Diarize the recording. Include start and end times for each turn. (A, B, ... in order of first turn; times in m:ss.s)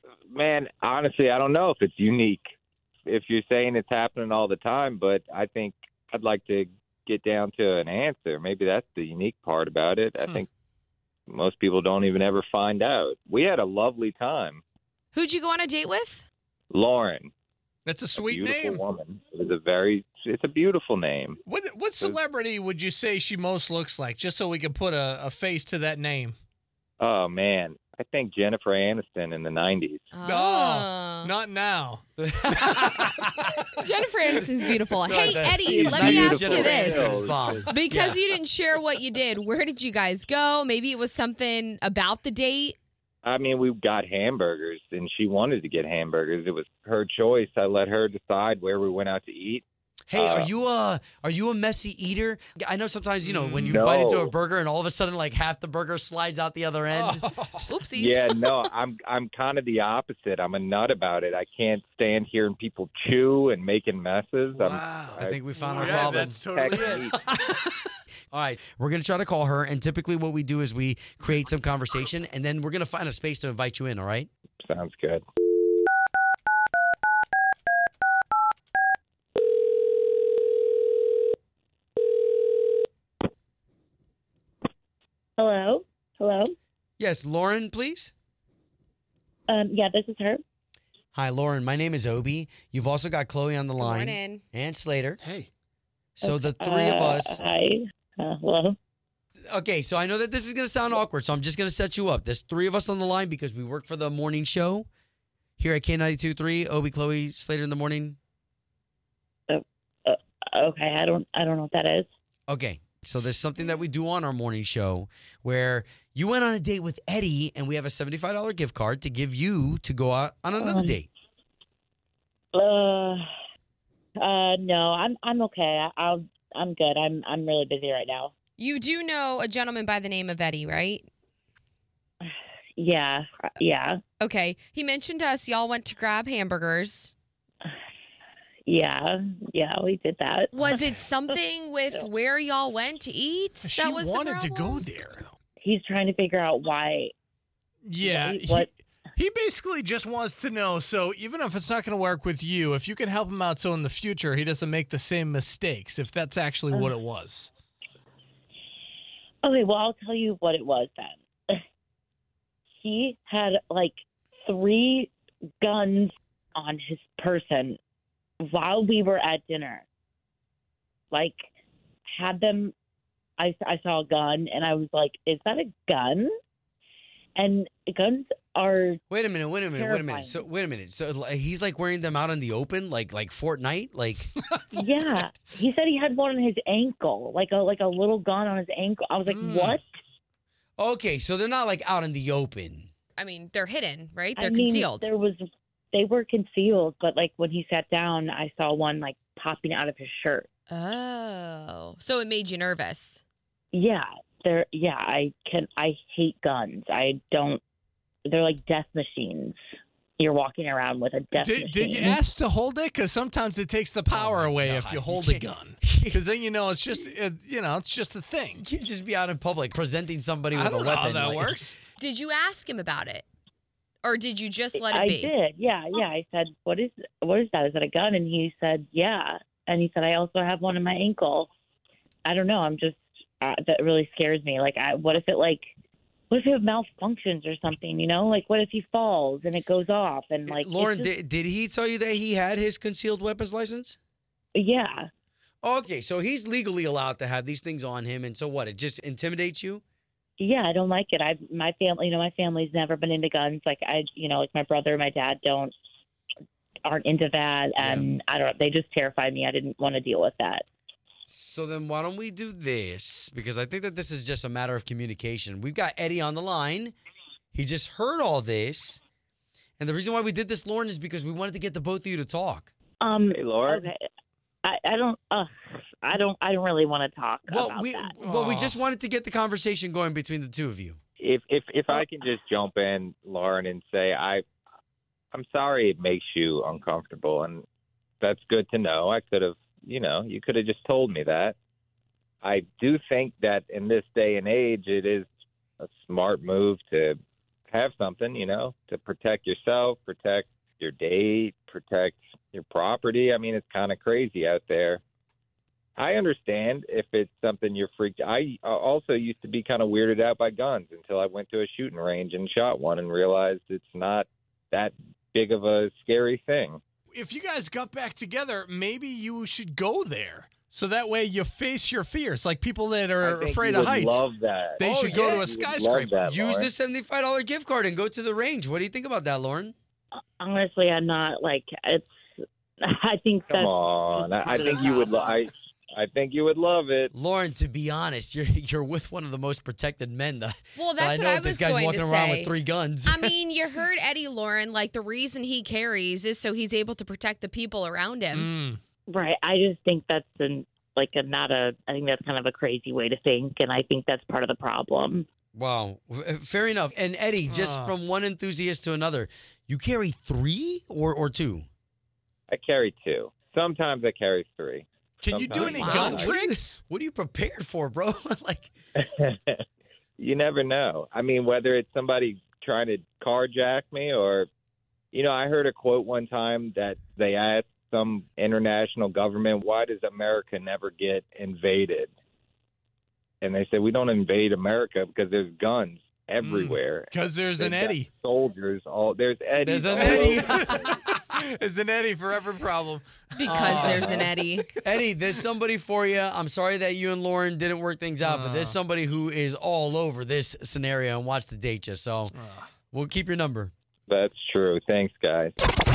0:00.3-0:02.5 A
0:03.1-0:10.5 A
0:11.3-0:14.6 A
0:15.1-0:16.2 B
0:16.7-0:17.3 A
0:17.9-0:18.8 C
0:18.1-0:21.4 A
0:21.5-0:26.4 C
0:27.0-0:30.1 A
0:30.1-0:31.3 B
0:30.2-0:32.0 C
0:32.2-0:33.5 D
0:32.7-0:33.2 C
0:33.7-0:42.8 B
0:35.0-0:38.2 D
0:35.7-0:37.7 A
0:43.2-0:50.5 A
0:50.1-0:57.2 D
0:53.2-0:53.8 C
0:53.7-0:54.3 A
0:56.9-0:57.7 C
0:57.7-0:58.3 B
0:57.9-1:07.2 A
1:04.6-1:07.1 C
1:05.2-1:14.3 D
1:14.6-1:15.2 A
1:25.4-1:26.5 E
1:27.0-1:28.1 D
1:29.5-1:30.4 E
1:31.2-1:35.2 D
1:33.8-1:34.4 B
1:35.2-1:35.5 C
1:36.2-1:37.4 D
1:36.2-1:38.8 E
1:39.5-1:44.9 D
1:45.6-1:48.2 D
1:49.5-1:52.1 E
1:52.5-2:01.1 D
2:00.6-2:01.0 E
2:02.5-2:03.2 E
2:04.2-2:08.3 E
2:08.6-2:11.1 B
2:12.2-2:14.0 E
2:14.2-2:17.1 B
2:18.7-2:20.8 E
2:20.5-2:24.9 B
2:23.6-2:25.4 C
2:25.6-2:27.1 E
2:27.8-2:37.5 C
2:28.0-2:28.7 E
2:39.4-2:41.6 E
2:42.8-2:47.8 E
2:48.4-2:49.8 E
2:51.1-2:51.5 E
2:52.1-2:52.7 E
2:53.4-2:56.3 E
2:57.4-2:59.0 E
2:59.1-3:04.3 D
2:59.7-3:00.4 E
3:04.4-3:04.8 C
3:04.7-3:09.8 E
3:09.3-3:09.8 C
3:10.8-3:12.9 D
3:13.2-3:15.1 B
3:14.4-3:20.5 E
3:20.7-3:23.2 B
3:23.7-3:27.6 E
3:28.3-3:29.6 E
3:30.2-3:32.2 E
3:31.3-3:38.6 C
3:34.1-3:36.2 D
3:38.6-3:41.8 D
3:40.5-3:41.8 C
3:42.0-3:43.2 B
3:44.0-3:45.3 B
3:44.8-3:51.5 E
3:52.2-3:55.7 E
3:56.3-4:01.1 E
4:00.5-4:04.0 D
4:04.6-4:05.1 E
4:05.6-4:09.8 D
4:10.4-4:15.7 E
4:16.8-4:20.7 E
4:17.8-4:18.1 D
4:21.3-4:26.9 D
4:27.5-4:29.0 D
4:29.8-4:32.7 D
4:33.0-4:34.0 E
4:33.4-4:33.9 A
4:34.6-4:35.5 E
4:36.0-4:38.2 E
4:37.5-4:41.0 D
4:38.2-4:38.8 C
4:41.2-4:44.4 A
4:45.3-4:47.6 A
4:48.2-4:51.6 A
4:52.4-4:55.3 A
4:55.8-4:57.2 A
4:57.7-5:05.0 A
5:06.0-5:16.8 A
5:17.1-5:24.3 C
5:23.2-5:26.7 A
5:24.8-5:26.1 C
5:24.8-5:25.5 D
5:26.1-5:29.7 D
5:30.4-5:32.3 E
5:32.8-5:35.4 E
5:33.5-5:37.1 A
5:37.1-5:43.3 D
5:40.8-5:42.6 B
5:43.1-5:48.5 B
5:48.3-5:48.8 C
5:49.1-5:55.3 E
5:55.6-6:01.7 D
5:57.5-5:57.9 C
6:02.5-6:06.1 A
6:05.2-6:06.8 C
6:05.5-6:08.7 D
6:05.7-6:06.3 B
6:09.0-6:09.6 A
6:10.2-6:14.5 A
6:15.1-6:22.1 A
6:23.4-6:30.7 A
6:26.4-6:28.1 C
6:29.6-6:30.9 D
6:30.0-6:34.2 C
6:33.3-6:34.7 B
6:33.4-6:34.2 D
6:33.8-6:34.2 A
6:34.8-6:42.4 D
6:38.2-6:38.8 C
6:42.4-6:42.6 C
6:42.9-6:43.7 D
6:44.1-6:45.6 A